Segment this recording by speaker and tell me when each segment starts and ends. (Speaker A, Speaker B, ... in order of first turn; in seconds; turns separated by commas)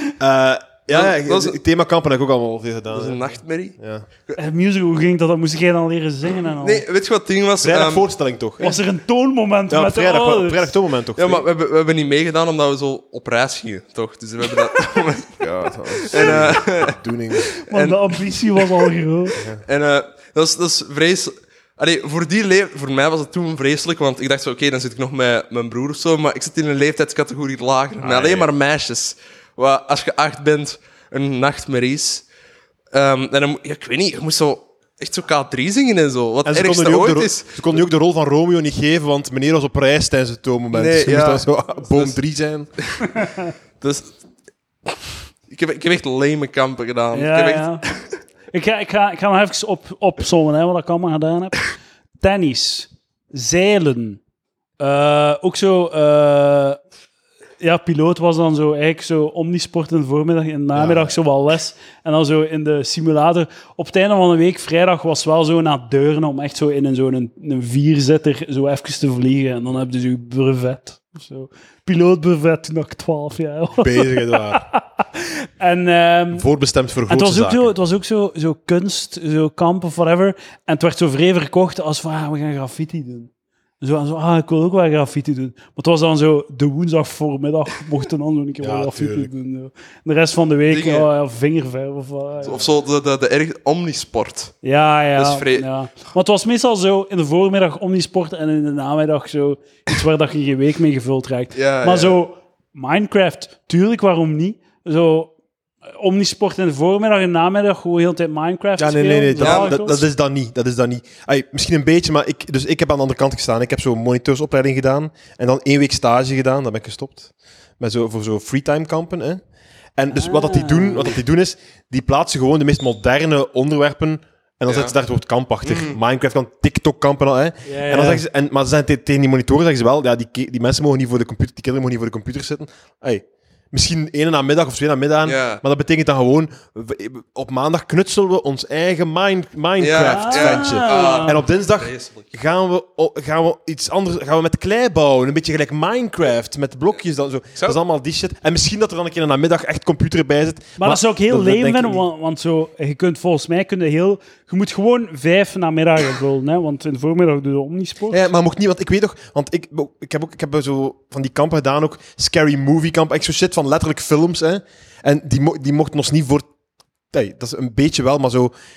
Speaker A: 0.2-4.0, Speaker B: 0.9-1.6, Speaker B: 2.9-3.8, Speaker C: 4.3-6.8, Speaker B: 6.5-8.1, Speaker A: 7.6-8.8, Speaker C: 8.6-10.7, Speaker A: 9.7-11.4, Speaker B: 11.2-15.4, Speaker A: 15.4-17.5, Speaker B: 16.0-17.0, Speaker B: 17.7-18.9, Speaker C: 17.7-19.4, Speaker B: 19.6-32.2, Speaker A: 28.0-28.5, Speaker B: 32.9-37.8, Speaker A: 36.4-42.7, Speaker B: 40.7-42.1, Speaker C: 43.0-43.5, Speaker B: 43.8-44.2, Speaker B: 44.9-48.0, Speaker C: 47.1-47.8, Speaker C: 48.5-51.6, Speaker C: 52.2-54.2, Speaker C: 54.8-56.8, Speaker C: 57.6-76.5, Speaker A: 60.7-61.1, Speaker A: 73.8-74.6, Speaker A: 76.3-77.7, Speaker C: 77.1-83.3, Speaker C: 83.8-92.7, Speaker A: 88.6-89.3, Speaker B: 90.7-91.1, Speaker B: 92.4-94.5, Speaker C: 94.6-105.3, Speaker B: 95.2-95.7, Speaker B: 101.5-102.2, Speaker C: 106.0-110.0, Speaker A: 108.8-119.4, Speaker B: 109.4-110.0, Speaker A: 120.0-152.0, Speaker C: 120.1-121.2, Speaker B: 124.7-124.9, Speaker B: 125.6-126.0, Speaker C: 127.7-128.2, Speaker B: 135.2-135.6, Speaker B: 139.8-142.2, Speaker C: 140.0-141.4, Speaker C: 150.8-158.2, Speaker A: 158.1-166.5, Speaker A: 167.1-168.5